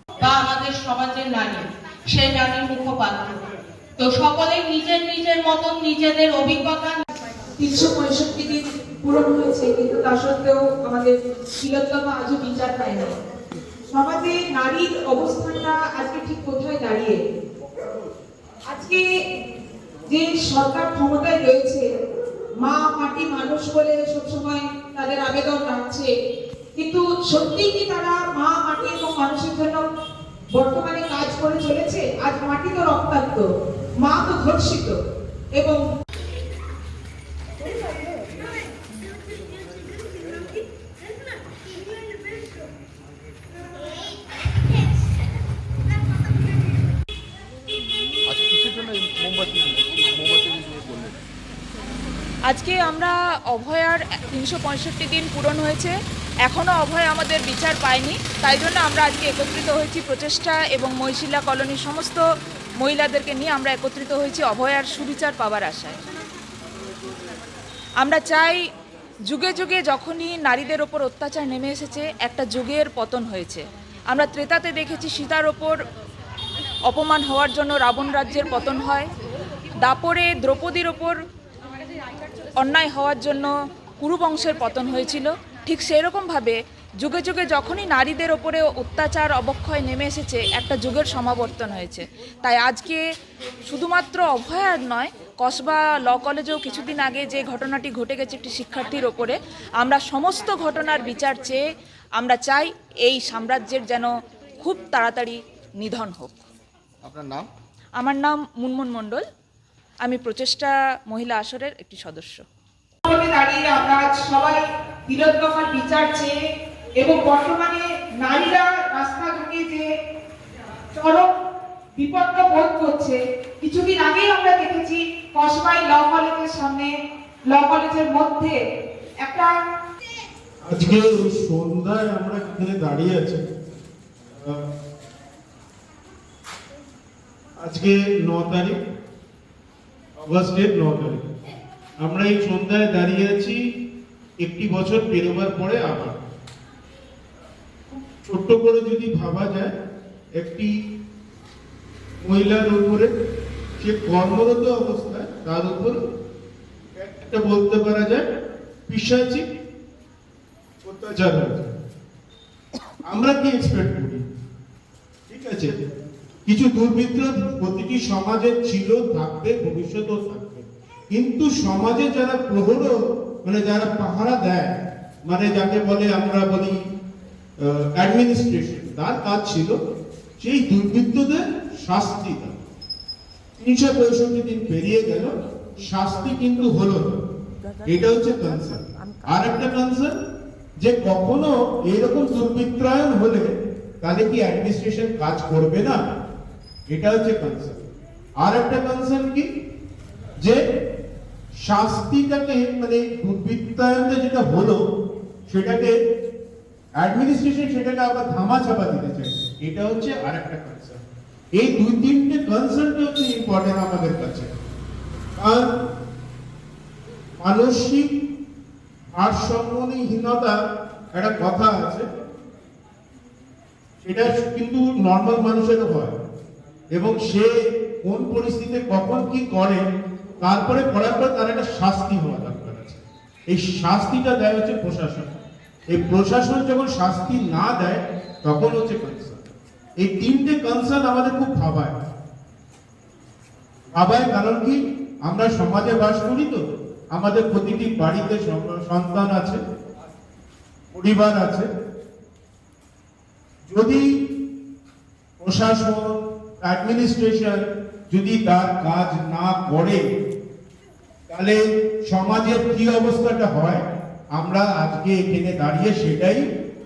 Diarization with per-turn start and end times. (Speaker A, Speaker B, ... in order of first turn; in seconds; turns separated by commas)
Speaker A: 0.2-3.4, Speaker A: 4.0-7.0, Speaker B: 7.6-8.5, Speaker C: 7.9-8.6, Speaker B: 9.0-13.1, Speaker C: 9.2-9.7, Speaker B: 13.9-17.2, Speaker B: 18.7-19.0, Speaker B: 20.1-21.9, Speaker B: 22.6-26.1, Speaker B: 26.8-29.8, Speaker B: 30.5-33.5, Speaker B: 34.0-35.0, Speaker D: 48.3-51.2, Speaker C: 52.5-55.9, Speaker C: 56.5-62.2, Speaker C: 62.8-66.0, Speaker C: 68.0-68.6, Speaker C: 69.2-75.8, Speaker C: 76.9-79.1, Speaker C: 79.8-81.1, Speaker C: 82.6-93.0, Speaker C: 93.7-101.6, Speaker C: 102.2-106.3, Speaker D: 107.0-107.5, Speaker C: 108.0-109.2, Speaker C: 110.0-112.4, Speaker B: 113.1-116.3, Speaker B: 117.0-119.8, Speaker B: 121.0-121.3, Speaker B: 122.0-126.9, Speaker B: 127.5-128.6, Speaker B: 129.2-129.6, Speaker E: 130.6-133.4, Speaker E: 137.6-138.8, Speaker E: 140.2-141.2, Speaker E: 142.0-143.6, Speaker E: 144.4-146.2, Speaker E: 148.2-149.7, Speaker E: 150.4-150.7, Speaker E: 152.2-153.1, Speaker E: 153.8-156.0, Speaker E: 156.9-158.2, Speaker E: 158.9-159.4, Speaker E: 160.8-161.7, Speaker E: 163.1-164.2, Speaker E: 165.3-165.7, Speaker E: 166.4-174.7, Speaker E: 175.2-176.7, Speaker E: 177.6-179.7, Speaker E: 180.4-182.5, Speaker E: 183.6-185.3, Speaker E: 185.8-187.1, Speaker E: 187.8-190.1, Speaker E: 190.8-195.9, Speaker E: 196.9-197.8, Speaker E: 198.4-199.5, Speaker E: 201.6-204.8, Speaker E: 205.5-205.9, Speaker E: 206.9-211.0, Speaker E: 211.5-214.5, Speaker E: 215.3-215.6, Speaker E: 217.4-218.1, Speaker E: 219.1-220.5, Speaker E: 221.1-222.0, Speaker E: 224.0-226.2, Speaker E: 226.9-227.5, Speaker E: 228.0-229.8, Speaker E: 230.4-235.3, Speaker E: 235.9-241.9, Speaker E: 243.9-246.6, Speaker E: 247.1-249.6, Speaker E: 250.9-251.7, Speaker E: 253.7-254.0, Speaker E: 255.4-260.0, Speaker E: 261.3-263.8, Speaker E: 264.3-266.4